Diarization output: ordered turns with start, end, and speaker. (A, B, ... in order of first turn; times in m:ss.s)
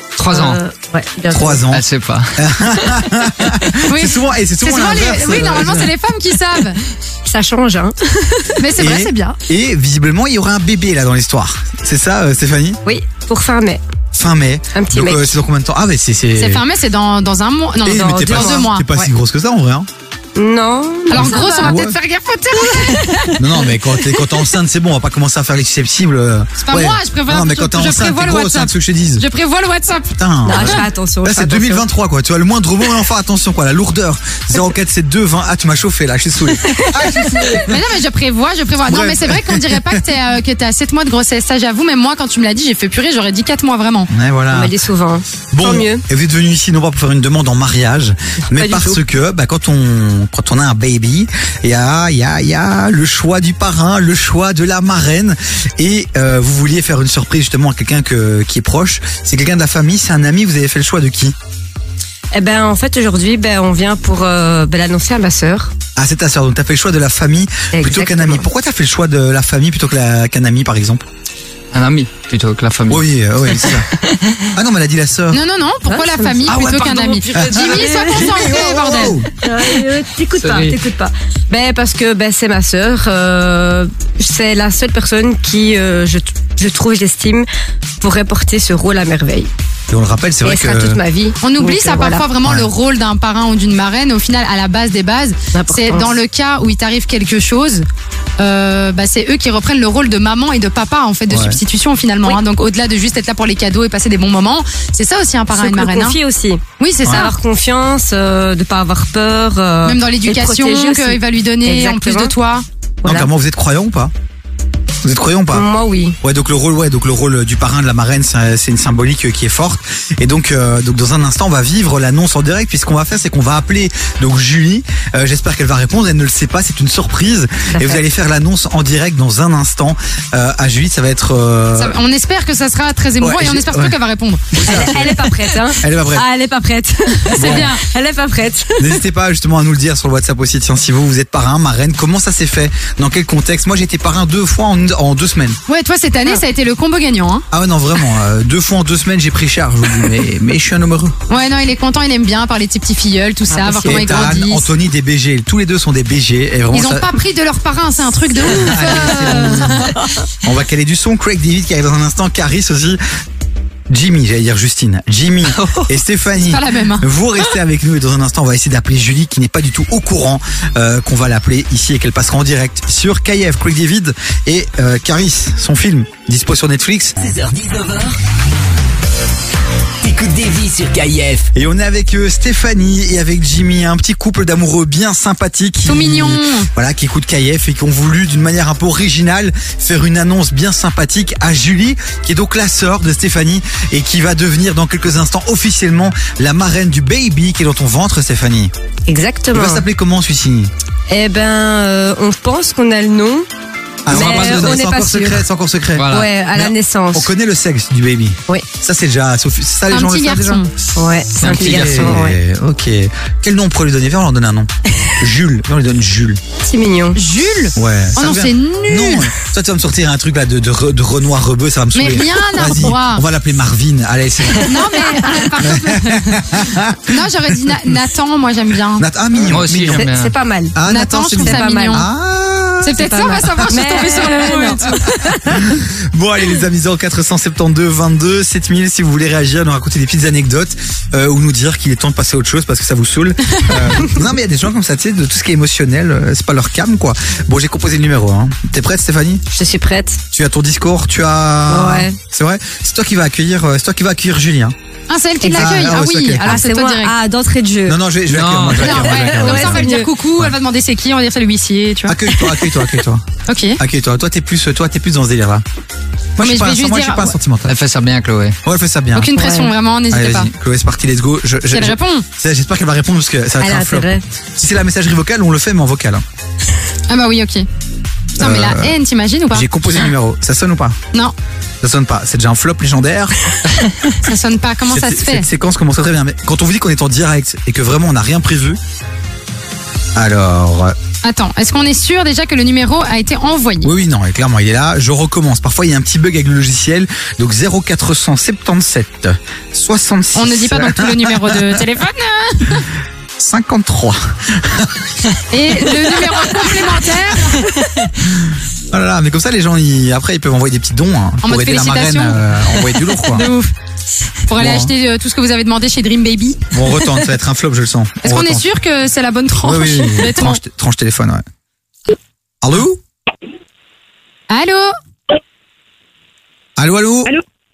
0:00.2-0:00.6 A
0:00.3-0:01.6 B
0:01.3-0:01.8 C
0:01.7-0:02.4 A
0:02.4-0:05.9 C
0:03.9-0:06.8 D
0:07.2-0:08.6 B
0:08.6-0:09.4 D
0:08.8-0:12.8 C
0:12.8-0:13.8 B
0:14.1-0:16.6 C
0:14.7-0:15.4 B
0:16.4-0:18.8 D
0:17.8-0:19.9 C
0:17.9-0:19.1 B
0:20.4-0:21.8 B
0:21.1-0:23.3 D
0:21.1-0:21.9 C
0:22.7-0:23.2 B
0:23.4-0:29.2 C
0:26.6-0:30.8 D
0:30.2-0:37.8 C
0:30.4-0:31.8 B
0:36.6-0:37.6 B
0:37.6-0:44.1 D
0:38.9-0:40.0 C
0:44.1-0:44.7 C
0:44.5-0:46.0 B
0:45.5-1:01.3 C
0:48.5-0:49.0 B
1:02.3-1:05.7 B
1:06.0-1:11.0 C
1:07.7-1:08.4 B
1:11.7-1:14.5 A
1:12.9-1:13.9 C
1:14.5-1:15.4 C
1:15.3-1:19.2 D
1:15.9-1:18.6 B
1:17.4-1:19.3 C
1:19.3-1:27.5 B
1:20.4-1:20.8 A
1:28.0-1:29.5 B
1:29.9-1:31.0 C
1:30.4-1:32.3 B
1:31.4-1:37.8 D
1:32.4-1:32.7 C
1:35.5-1:36.2 B
1:38.4-1:46.2 D
1:41.3-1:41.6 C
1:45.5-1:52.4 B
1:46.8-1:47.3 D
1:49.8-1:52.6 D
1:53.0-1:53.3 B
1:53.0-1:54.1 C
1:55.0-1:55.6 C
1:55.5-1:56.2 B
1:56.2-2:12.0 C
2:07.7-2:08.0 B
2:11.8-2:14.9 D
2:13.2-2:14.0 C
2:14.5-2:16.2 C
2:14.6-2:19.0 B
2:17.3-2:17.8 D
2:17.4-2:17.7 C
2:18.8-2:25.6 C
2:25.7-2:27.4 D
2:27.5-2:31.2 C
2:31.3-2:34.7 D
2:33.5-2:34.3 B
2:33.8-2:37.1 C
2:36.7-2:40.0 D
2:38.4-2:39.9 C
2:40.4-2:43.0 C
2:43.9-2:57.1 C
2:45.6-2:45.9 A
2:46.4-2:47.1 D
2:57.3-2:58.1 E
3:00.0-3:01.3 E
3:01.5-3:18.7 C
3:05.8-3:06.7 D
3:19.1-3:19.8 B
3:19.5-3:20.7 C
3:21.1-3:23.5 B
3:24.0-3:30.6 C
3:24.1-3:25.5 B
3:24.1-3:24.8 A
3:26.0-3:26.3 A
3:26.1-3:27.3 B
3:29.9-3:30.7 D
3:31.0-3:32.4 B
3:31.4-3:32.1 A
3:31.4-3:36.4 C
3:36.6-3:37.2 B
3:37.2-3:39.3 D
3:37.8-3:44.9 C
3:41.9-3:43.2 D
3:44.6-3:49.0 D
3:45.1-3:45.5 B
3:45.6-3:47.0 C
3:49.0-3:50.1 C
3:49.5-3:50.3 A
3:49.9-3:50.8 B
3:50.8-3:54.9 C
3:50.9-3:52.1 D
3:51.4-3:52.0 B
3:52.8-3:55.0 D
3:53.0-3:55.6 B
3:55.4-4:09.4 C
4:09.5-4:10.2 B
4:10.3-4:14.7 C
4:11.7-4:12.2 B
4:15.1-4:17.1 D
4:15.4-4:15.8 B
4:15.6-4:16.6 C
4:16.4-4:18.0 B
4:17.9-4:20.5 C
4:18.3-4:19.4 A
4:18.8-4:22.2 D
4:18.9-4:20.1 B
4:22.1-4:23.2 C
4:23.5-4:23.8 D
4:23.8-4:25.6 C
4:26.4-4:27.7 C
4:26.4-4:27.4 D
4:27.7-4:28.6 A
4:28.6-4:29.3 C
4:29.1-4:30.5 D
4:29.3-4:29.7 B
4:30.1-4:36.2 C
4:31.7-4:32.2 D
4:33.6-4:34.2 B
4:37.1-4:37.6 D
4:38.4-4:39.7 D
4:38.4-4:39.0 C
4:39.5-4:41.0 C
4:41.8-4:43.4 C
4:44.2-4:45.5 D
4:44.9-4:48.8 C
4:50.2-4:50.9 C
4:51.2-4:53.9 D
4:53.8-5:01.8 C
5:00.3-5:02.9 D
5:03.4-5:06.4 C
5:05.5-5:07.8 D
5:08.4-5:13.5 C
5:11.4-5:13.7 D
5:14.5-5:16.6 D
5:14.6-5:14.9 C
5:16.7-5:18.7 C
5:18.2-5:20.6 D
5:19.6-5:21.4 C
5:22.6-5:23.0 C
5:24.5-5:24.9 D
5:26.8-5:27.3 C